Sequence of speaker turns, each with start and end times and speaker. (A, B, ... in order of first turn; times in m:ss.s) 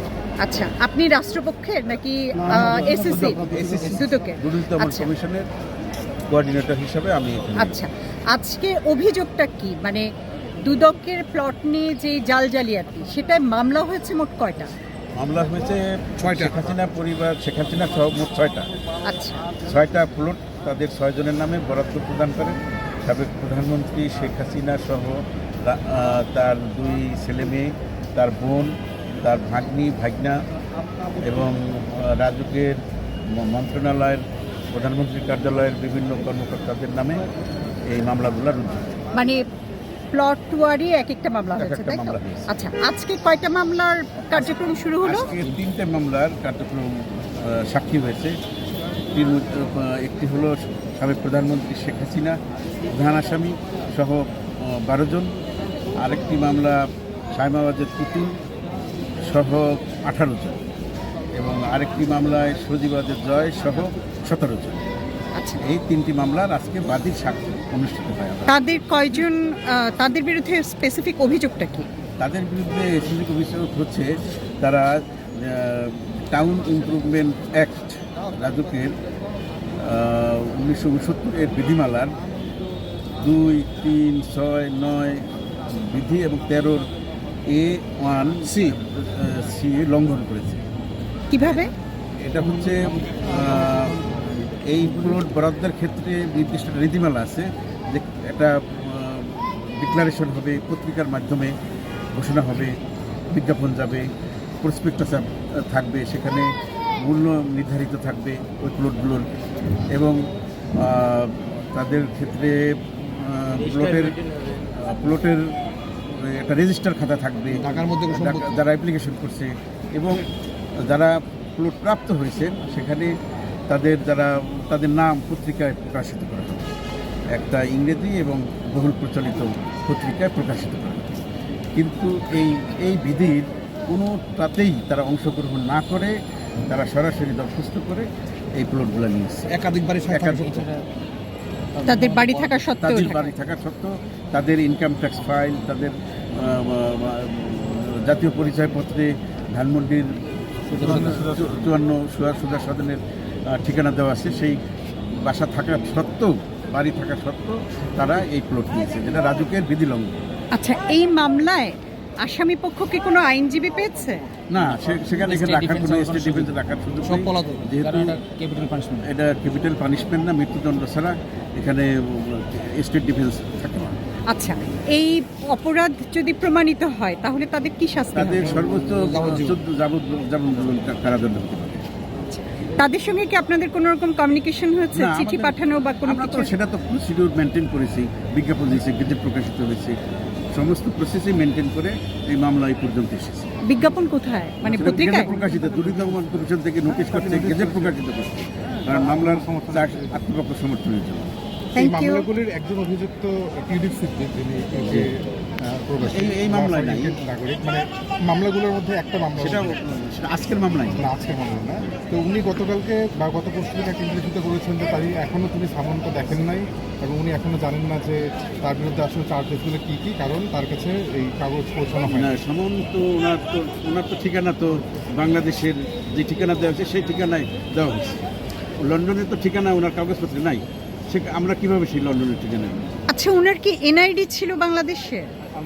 0:00.4-0:05.1 A
0:02.6-0:05.5 B
0:06.3-0:07.8 B
0:07.6-0:10.1 A
0:10.6-0:14.7 A
0:15.2-0:18.7 B
0:16.2-0:16.5 C
0:19.1-0:19.4 A
0:19.6-0:30.4 B
0:31.2-0:37.2 B
0:37.9-0:38.9 B
0:39.1-0:39.4 A
0:40.1-0:45.3 A
0:41.6-0:42.5 B
0:45.0-0:48.3 B
0:49.1-0:52.4 B
0:52.9-0:55.3 B
0:56.0-0:56.8 B
0:57.3-0:58.4 B
0:59.2-1:00.6 B
1:01.3-1:04.8 B
1:05.6-1:08.5 B
1:08.5-1:11.9 A
1:12.2-1:18.9 B
1:19.8-1:22.2 B
1:23.2-1:26.9 B
1:27.5-1:30.6 B
1:31.3-1:31.7 A
1:32.2-1:41.5 B
1:42.1-1:42.8 B
1:43.3-1:44.1 B
1:44.6-1:49.3 B
1:49.9-1:50.2 B
1:50.7-1:55.5 B
1:56.0-2:00.3 B
1:57.6-1:58.5 C
2:00.8-2:03.1 B
2:03.7-2:06.7 B
2:07.3-2:11.2 B
2:11.7-2:16.1 B
2:16.7-2:18.1 B
2:18.6-2:19.6 B
2:19.5-2:20.8 C
2:20.1-2:20.6 B
2:21.8-2:22.6 C
2:21.8-2:23.3 A
2:22.8-2:30.1 B
2:30.7-2:31.4 C
2:30.7-2:34.6 B
2:35.2-2:40.2 B
2:40.5-2:44.3 A
2:44.5-2:48.2 B
2:44.8-2:49.1 C
2:49.0-2:53.9 B
2:54.3-2:58.5 A
2:58.1-3:01.8 B
2:58.6-2:59.6 C
3:02.3-3:06.5 A
3:04.9-3:10.0 B
3:10.5-3:13.6 B
3:13.6-3:15.3 A
3:14.6-3:21.4 B
3:15.0-3:16.2 D
3:17.0-3:18.0 D
3:18.8-3:20.2 D
3:21.7-3:22.3 A
3:21.7-3:29.8 D
3:24.8-3:25.1 B
3:26.0-3:27.2 B
3:29.4-3:31.1 B
3:30.9-3:42.3 D
3:42.0-3:53.0 B
3:53.1-3:55.3 A